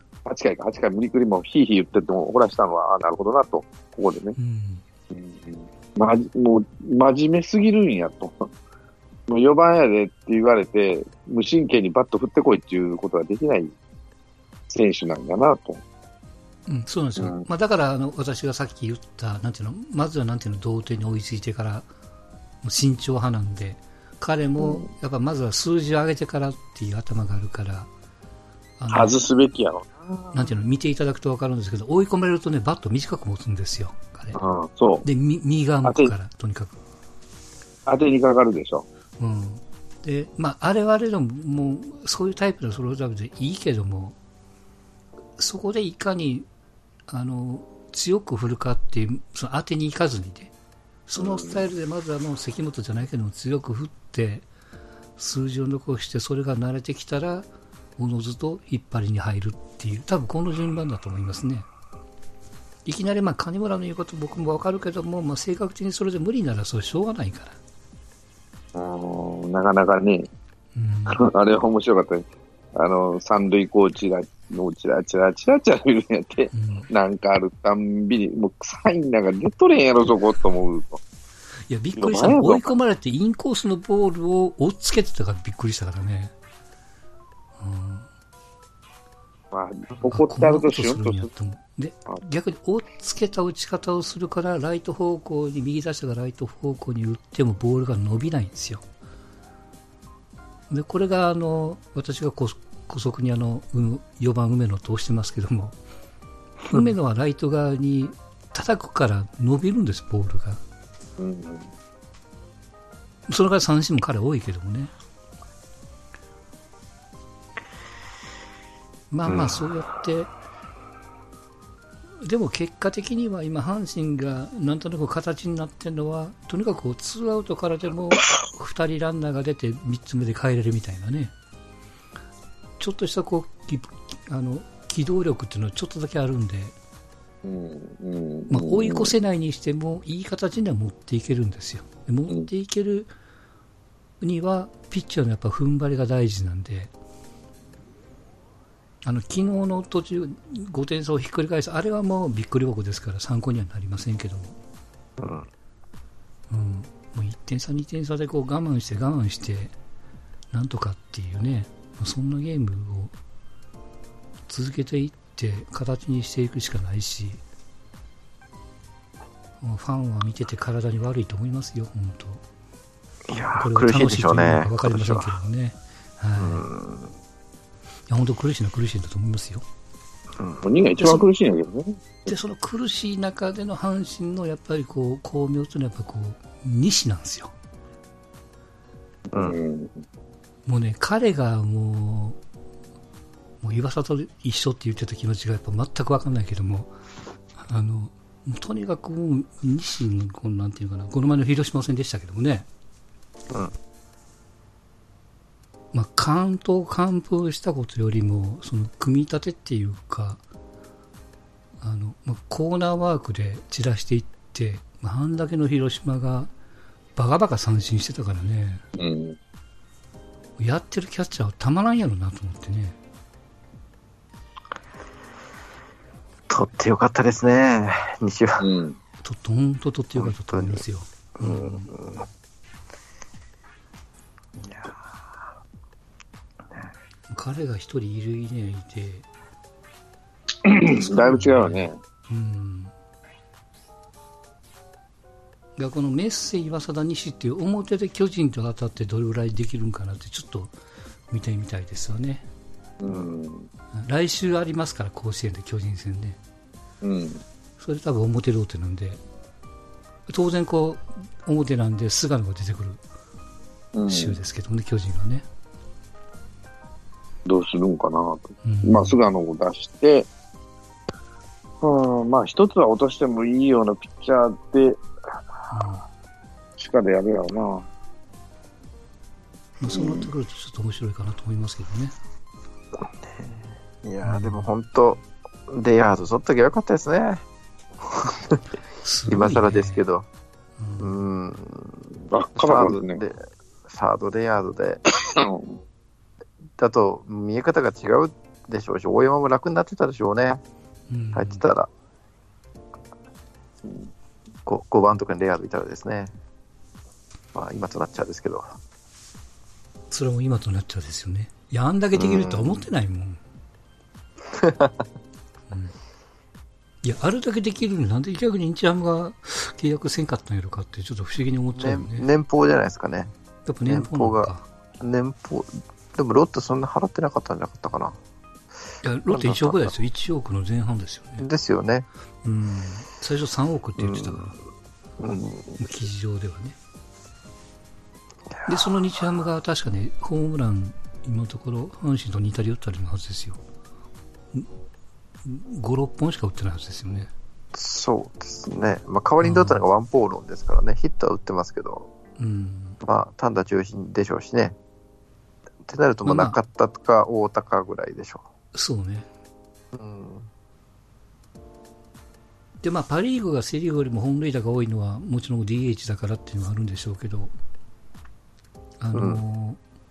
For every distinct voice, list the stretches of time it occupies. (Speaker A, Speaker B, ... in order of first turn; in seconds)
Speaker A: 0.3-4.4, 5.1-8.5, 9.3-13.7, 14.7-15.8, 17.2-17.5, 24.6-24.9, 28.9-30.5, 34.4-35.1, 35.8-36.1, 37.9-38.9, 51.2-51.7, 68.7-70.3, 71.1-81.0, 82.0-82.7, 89.5-91.3, 111.2-111.7, 137.4-139.1, 180.6-182.3, 189.3-190.0, 219.0-219.4, 228.6-229.0, 240.6-242.0, 253.0-253.7, 257.0-257.4, 263.9-264.4, 267.5-270.3, 271.8-275.0, 276.8-277.9, 292.3-293.2, 295.1-295.8
Speaker B: 4.4-4.8, 16.7-21.9, 22.6-27.9, 28.8-29.2, 30.3-34.4, 35.0-36.8, 39.2-44.2, 45.4-46.5, 47.1-50.5, 51.1-54.5, 55.2-61.7, 62.9-67.6, 70.8-71.3, 76.5-76.9, 81.7-86.3, 87.6-88.1, 90.1-98.8, 100.7-105.8, 106.7-110.6, 113.3-114.9, 119.1-120.3, 122.2-131.3, 132.8-136.8, 138.5-143.1, 144.2-146.9, 149.0-154.6, 156.5-159.8, 160.5-163.1, 164.5-167.4, 169.6-172.4, 173.6-176.6, 178.1-179.6, 182.3-187.5, 190.7-192.4, 193.6-196.9, 197.6-202.7, 205.9-210.4, 211.8-216.5, 217.2-218.8, 220.6-223.0, 229.2-231.9, 237.3-239.3, 241.2-242.9, 245.8-250.7, 251.3-252.5, 253.9-256.4, 257.8-259.2, 260.3-263.0, 264.1-265.5, 268.6-269.2, 275.7-276.0, 279.8-282.1, 284.2-284.7, 289.0-290.1, 290.8-291.1, 301.1-301.6, 310.1-313.4, 315.7-316.0, 317.0-322.3, 323.7-324.7, 329.0-331.5, 332.4-334.6, 335.8-336.8, 338.7-343.6, 345.4-347.3, 349.4-349.8, 352.4-353.0, 356.2-356.6, 358.7-359.3, 362.8-367.5, 369.0-369.8
Speaker C: 119.3-119.7, 155.2-155.5, 173.3-175.4, 176.4-177.1, 180.4-180.7, 226.5-228.7, 230.2-230.8, 231.4-232.3, 234.6-235.1, 283.0-287.4, 288.1-288.6, 289.3-290.3, 291.0-295.0, 296.8-300.6, 301.3-301.9, 304.7-306.3, 307.6-308.8, 312.1-312.9, 314.5-315.0, 321.7-323.3, 323.9-328.2, 329.3-329.9, 331.4-332.1, 334.0-334.6, 335.2-335.8, 338.5-338.9, 347.7-352.1, 353.0-354.8, 355.9-358.5, 359.9-360.5, 369.1-369.4